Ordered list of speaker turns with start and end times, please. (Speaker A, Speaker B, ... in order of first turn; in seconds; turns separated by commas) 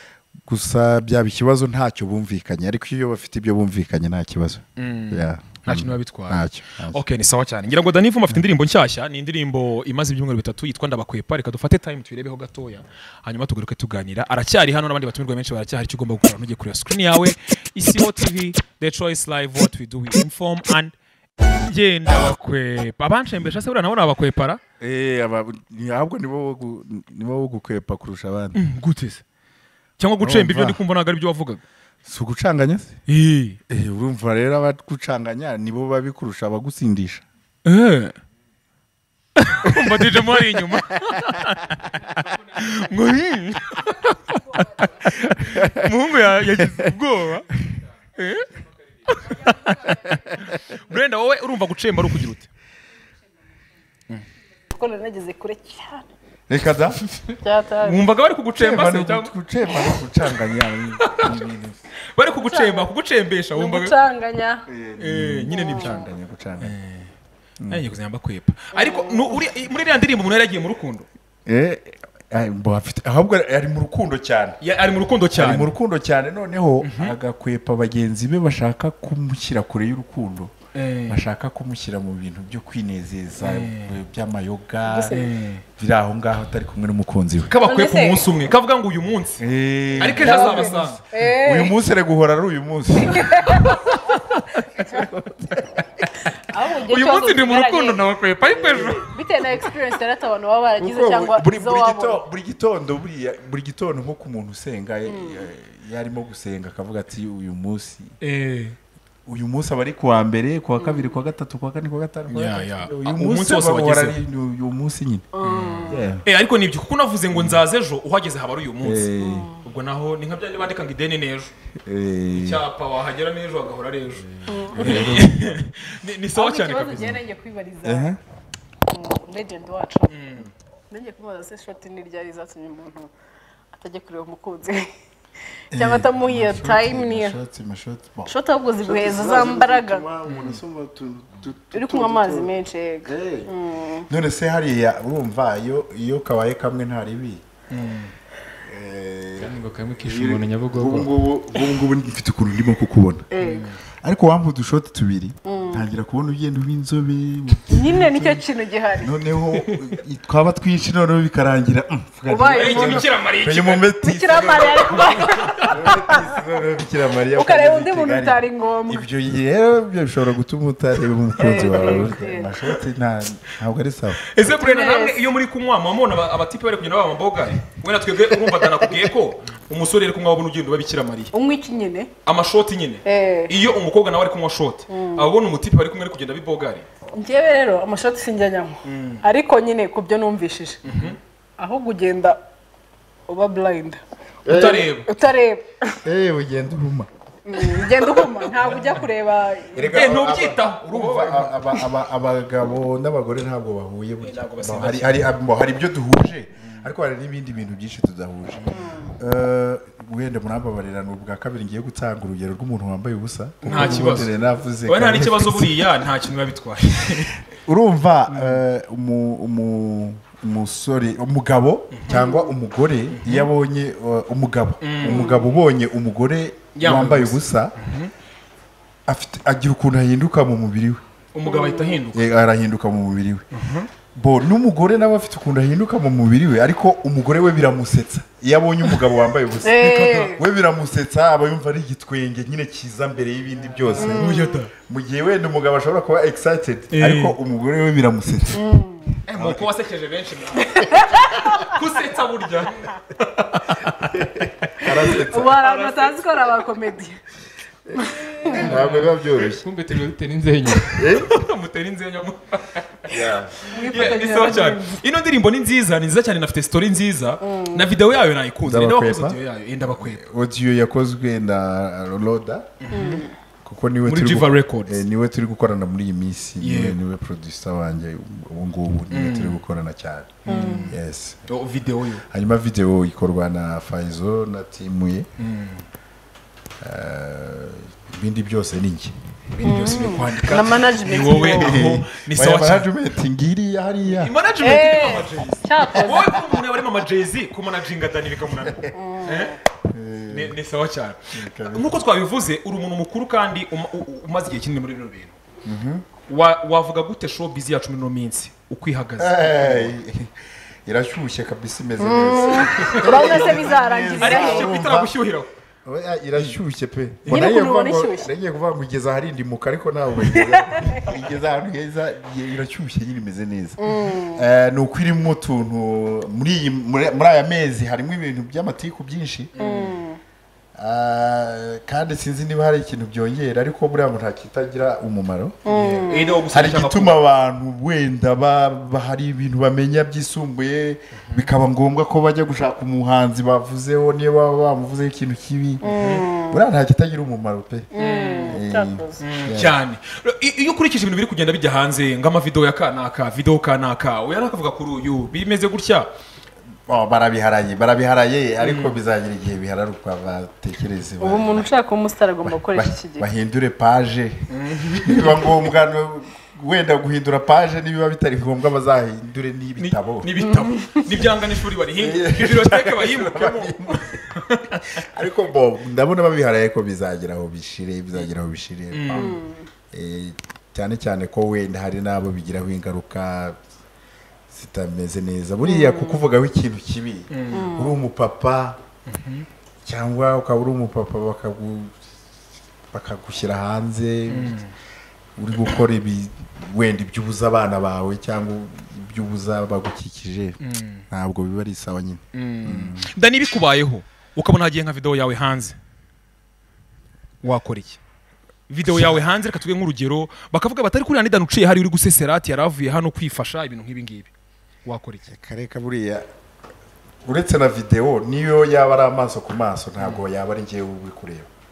Speaker A: 0.5-7.0, Speaker B: 4.8-24.6, Speaker A: 24.8-28.6, Speaker B: 28.5-29.2, Speaker B: 30.0-31.6, Speaker A: 30.2-30.8, Speaker A: 32.0-33.0, Speaker B: 33.1-33.6, Speaker A: 33.7-37.2, Speaker B: 37.6-38.1, Speaker B: 39.4-47.5, Speaker A: 39.6-41.1, Speaker A: 45.0-46.9, Speaker B: 48.2-48.5, Speaker B: 49.1-52.5, Speaker C: 54.7-56.1, Speaker A: 56.5-57.0, Speaker C: 57.4-58.0, Speaker B: 57.8-59.9, Speaker A: 58.6-61.8, Speaker B: 61.0-61.3, Speaker B: 62.1-63.9, Speaker C: 62.3-62.9, Speaker C: 63.5-64.6, Speaker A: 64.7-66.7, Speaker B: 65.0-66.0, Speaker C: 65.5-66.1, Speaker B: 66.6-67.1, Speaker A: 67.6-67.9, Speaker B: 67.7-71.1, Speaker C: 68.7-69.4, Speaker A: 71.5-74.6, Speaker B: 74.6-75.7, Speaker A: 75.3-80.5, Speaker B: 76.8-77.2, Speaker B: 80.7-81.2, Speaker A: 81.1-85.1, Speaker B: 83.4-83.9, Speaker C: 84.9-85.3, Speaker B: 85.1-85.6, Speaker A: 85.8-87.5, Speaker B: 87.5-89.4, Speaker C: 87.6-88.3, Speaker A: 89.4-93.6, Speaker B: 90.0-91.0, Speaker C: 90.0-91.7, Speaker C: 93.0-94.0, Speaker B: 93.7-94.4, Speaker A: 94.8-95.6, Speaker B: 95.5-96.0, Speaker C: 96.4-98.0, Speaker B: 96.7-99.1, Speaker A: 98.5-99.1, Speaker C: 98.7-102.2, Speaker A: 100.8-108.1, Speaker C: 105.1-105.4, Speaker B: 108.2-108.8, Speaker A: 109.2-115.3, Speaker C: 110.8-111.1, Speaker B: 112.3-114.2, Speaker C: 115.3-116.0, Speaker B: 115.4-121.5, Speaker A: 115.9-116.2, Speaker A: 117.3-117.6, Speaker A: 118.8-119.5, Speaker C: 119.2-119.6, Speaker A: 121.8-122.6, Speaker B: 122.3-127.2, Speaker C: 124.5-125.2, Speaker A: 124.7-125.5, Speaker D: 124.8-125.5, Speaker C: 126.3-128.1, Speaker A: 127.8-128.2, Speaker C: 128.9-130.2, Speaker B: 130.1-130.5, Speaker C: 130.9-133.1, Speaker C: 133.7-134.9, Speaker A: 135.7-143.5, Speaker C: 135.7-137.4, Speaker C: 138.3-140.1, Speaker B: 140.3-140.6, Speaker C: 141.7-144.1, Speaker A: 144.1-147.4, Speaker B: 147.7-148.1, Speaker A: 148.7-153.3, Speaker D: 149.4-151.1, Speaker C: 153.3-153.7, Speaker B: 153.4-153.8, Speaker A: 154.0-158.4, Speaker C: 155.4-155.8, Speaker C: 157.7-159.3, Speaker A: 159.0-165.0, Speaker C: 162.2-163.1, Speaker B: 162.5-165.7, Speaker C: 164.0-166.2, Speaker A: 165.6-174.3, Speaker C: 167.3-169.0, Speaker C: 171.3-172.5, Speaker B: 171.8-172.0, Speaker B: 174.3-181.3, Speaker C: 174.4-175.2, Speaker C: 181.3-182.1, Speaker B: 182.2-186.9, Speaker C: 183.1-183.5, Speaker C: 184.9-185.3, Speaker C: 187.1-192.4, Speaker B: 188.8-189.2, Speaker B: 190.8-191.2, Speaker C: 193.3-195.9, Speaker A: 194.4-194.9, Speaker B: 194.5-195.1, Speaker A: 196.0-197.1, Speaker C: 197.4-199.9, Speaker B: 197.7-199.0, Speaker A: 199.7-208.6, Speaker B: 199.9-201.8, Speaker B: 204.2-205.3, Speaker B: 208.5-208.9, Speaker C: 208.7-209.1, Speaker A: 209.2-215.9, Speaker B: 213.6-214.3, Speaker C: 213.7-214.1, Speaker B: 214.9-217.3, Speaker A: 217.5-227.7, Speaker B: 218.3-218.6, Speaker C: 222.1-222.5, Speaker B: 223.1-223.5, Speaker B: 224.8-225.3, Speaker C: 225.0-225.5, Speaker B: 226.7-228.1, Speaker A: 229.1-231.0, Speaker B: 231.3-232.2, Speaker C: 231.4-232.0, Speaker A: 232.1-233.4, Speaker B: 233.5-233.9, Speaker A: 234.1-248.6, Speaker C: 239.6-240.4, Speaker B: 239.8-240.3, Speaker B: 244.0-244.7, Speaker C: 244.0-244.6, Speaker B: 246.9-247.3, Speaker C: 248.5-249.1, Speaker B: 249.2-254.7, Speaker A: 249.4-249.6, Speaker C: 250.8-251.8, Speaker A: 254.1-255.6, Speaker C: 255.2-257.2, Speaker B: 255.5-256.2, Speaker A: 257.9-259.6, Speaker C: 257.9-258.7, Speaker B: 258.5-259.0, Speaker D: 258.6-261.1, Speaker B: 260.8-270.2, Speaker A: 260.9-261.3, Speaker A: 263.1-263.7, Speaker C: 263.7-265.0, Speaker C: 267.4-267.9, Speaker A: 268.6-269.4, Speaker A: 269.9-272.7, Speaker B: 272.8-273.3, Speaker C: 272.9-273.3, Speaker A: 273.6-281.4, Speaker B: 274.0-275.0, Speaker B: 276.6-277.0, Speaker B: 279.1-279.6, Speaker B: 280.4-282.2, Speaker C: 280.5-280.9, Speaker A: 282.3-285.3, Speaker B: 285.4-285.8, Speaker A: 286.8-289.1, Speaker B: 289.5-292.9, Speaker C: 289.6-291.8, Speaker A: 291.6-294.3, Speaker B: 294.1-299.6, Speaker C: 294.6-296.3, Speaker A: 298.6-298.9, Speaker C: 298.9-299.6, Speaker A: 299.9-300.6, Speaker B: 300.3-301.2, Speaker A: 301.3-301.9, Speaker B: 301.7-305.4, Speaker A: 305.6-306.1, Speaker B: 306.3-309.9, Speaker A: 309.2-310.3, Speaker A: 310.9-315.1, Speaker C: 312.0-314.7, Speaker B: 312.7-313.6, Speaker B: 314.2-315.5, Speaker A: 315.8-329.5, Speaker C: 317.2-318.3, Speaker B: 317.3-317.5, Speaker C: 320.3-321.0, Speaker C: 323.8-324.4, Speaker B: 329.5-330.0, Speaker C: 329.6-330.2, Speaker A: 330.7-335.6, Speaker C: 335.6-336.4, Speaker B: 335.7-337.2, Speaker A: 336.5-345.9, Speaker B: 341.1-341.5, Speaker C: 345.8-346.6, Speaker B: 345.8-346.3, Speaker A: 346.5-347.9, Speaker C: 347.9-349.2, Speaker B: 347.9-348.6, Speaker A: 348.5-349.8, Speaker B: 349.2-356.1, Speaker A: 356.9-361.7, Speaker B: 358.6-359.0, Speaker C: 361.2-363.2, Speaker A: 362.4-370.3, Speaker B: 364.5-365.6, Speaker B: 369.8-374.8, Speaker C: 370.4-371.1, Speaker A: 372.0-374.2, Speaker A: 375.0-379.4, Speaker B: 378.9-379.4, Speaker C: 379.1-379.7, Speaker A: 379.9-383.6, Speaker A: 384.5-388.8, Speaker C: 385.6-386.2, Speaker B: 387.3-387.7, Speaker C: 387.5-387.9, Speaker B: 389.1-389.5, Speaker A: 389.8-391.9, Speaker A: 392.9-394.6, Speaker B: 394.3-394.7, Speaker A: 395.4-400.6, Speaker B: 400.6-401.1, Speaker A: 401.1-403.1, Speaker B: 402.3-405.8, Speaker B: 407.4-408.0, Speaker B: 408.7-414.3, Speaker A: 408.8-409.2, Speaker B: 414.8-415.3, Speaker A: 415.3-416.2, Speaker A: 417.2-421.5, Speaker B: 420.0-420.2